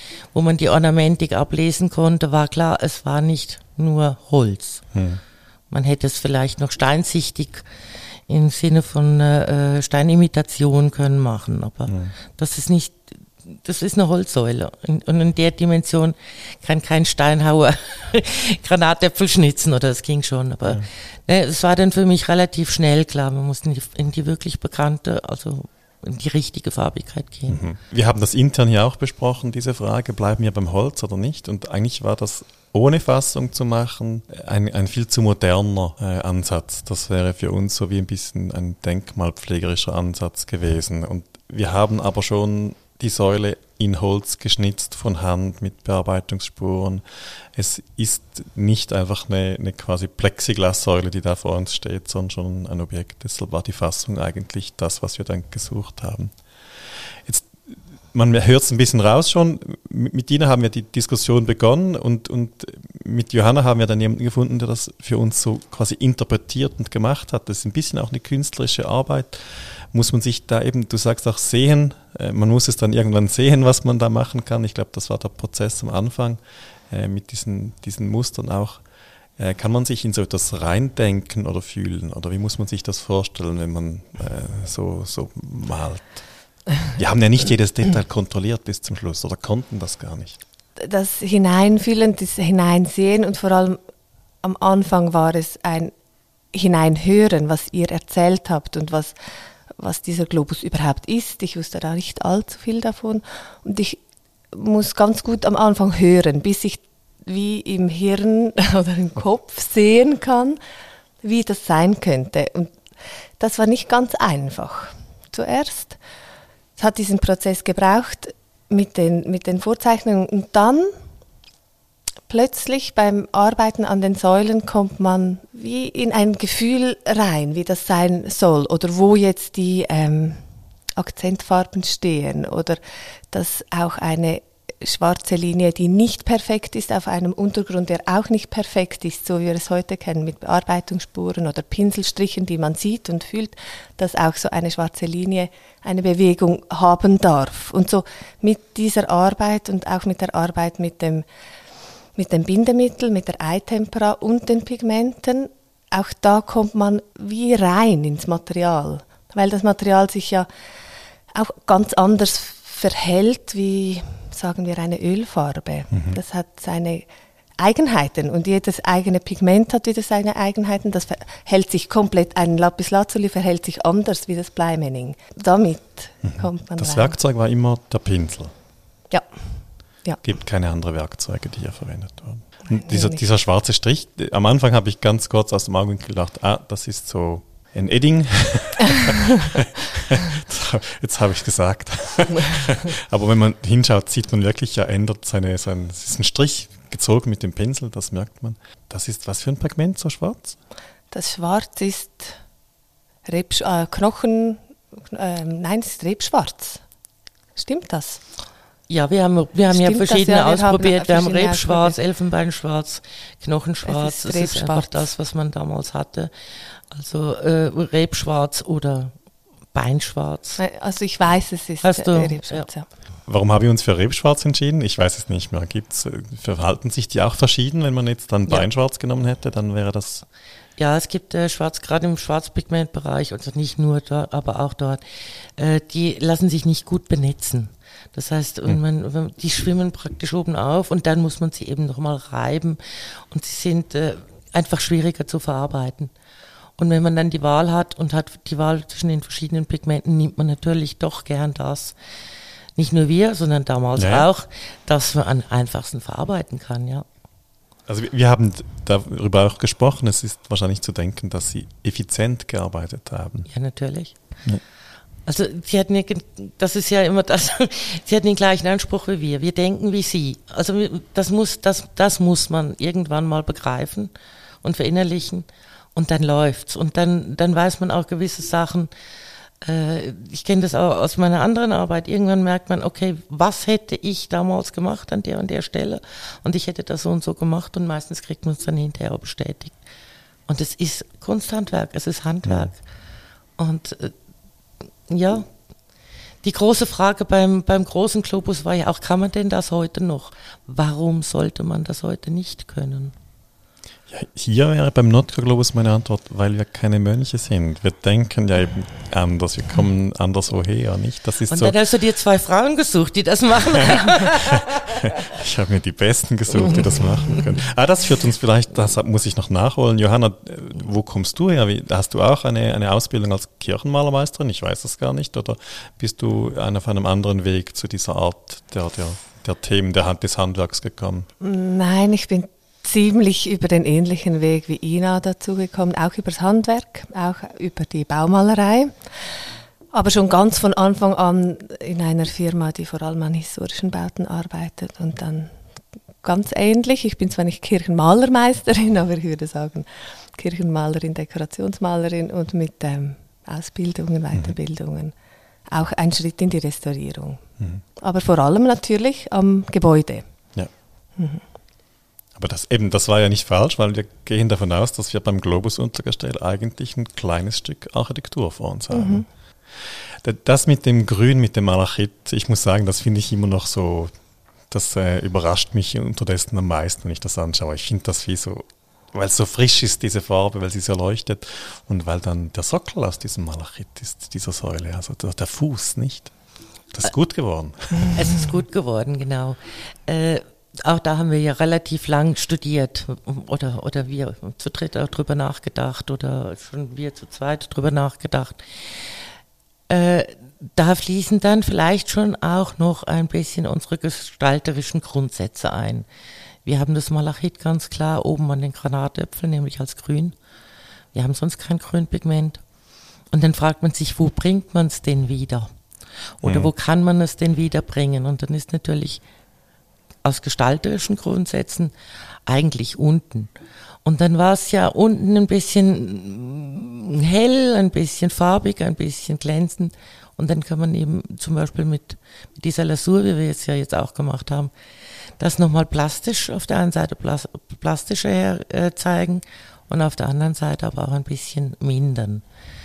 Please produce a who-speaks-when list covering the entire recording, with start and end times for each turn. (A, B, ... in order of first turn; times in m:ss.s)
0:00.3-0:04.8 A
0:04.9-0:05.2 B
0:05.7-0:07.7 A
0:08.3-0:27.6 A
0:11.9-0:12.1 B
0:27.5-0:56.3 B
0:57.2-0:57.6 B
0:58.1-1:18.8 B
1:19.4-1:26.2 B
1:26.9-1:30.4 B
1:30.8-1:33.8 C
1:34.4-1:35.9 C
1:36.5-1:39.2 C
1:39.8-1:44.0 C
1:44.5-1:50.6 C
1:51.2-1:52.7 C
1:53.4-1:56.0 C
1:56.8-2:00.9 C
2:02.3-2:10.4 C
2:11.0-2:31.2 C
2:32.2-2:40.5 C
2:41.3-2:47.1 C
2:45.9-2:46.2 B
2:47.6-2:57.2 C
2:56.2-2:58.5 B
3:00.2-3:20.6 B
3:02.7-3:03.2 C
3:21.1-3:22.4 C
3:23.2-3:26.8 C
3:27.6-3:28.2 C
3:28.9-3:39.1 A
3:29.7-3:32.0 C
3:33.9-3:35.1 C
3:39.7-3:40.6 A
3:40.6-3:42.9 C
3:41.8-3:42.7 A
3:43.3-3:50.2 B
3:50.8-4:06.1 A
4:06.8-4:12.0 A
4:12.8-4:17.0 A
4:14.0-4:14.3 B
4:17.9-4:23.5 B
4:23.5-4:24.1 A
4:25.3-4:34.1 A
4:34.6-4:38.9 A
4:39.6-4:49.8 A
4:50.5-4:52.8 A
4:52.4-4:52.7 B
4:53.6-4:54.1 A
4:55.1-4:55.5 A
4:56.4-5:03.2 A
5:04.1-5:11.8 B
5:11.5-5:15.0 A
5:13.9-5:31.3 B
5:31.4-5:39.0 C
5:39.9-5:45.6 C
5:46.2-5:55.1 C
5:55.7-5:57.4 C
5:58.0-6:00.3 C
6:01.2-6:01.4 C
6:02.4-6:09.3 B
6:08.9-6:09.3 C
6:09.8-6:14.1 B
6:14.7-6:26.3 B
6:26.9-6:28.4 B
6:28.1-6:39.2 A
6:39.9-6:46.1 A
6:46.6-6:50.4 A
6:51.1-6:52.6 A
6:53.3-6:55.7 A
6:56.4-6:59.2 A
6:56.4-6:56.7 B
7:00.2-7:01.9 A
7:02.5-7:03.5 A
7:04.0-7:14.7 A
7:15.4-7:22.4 A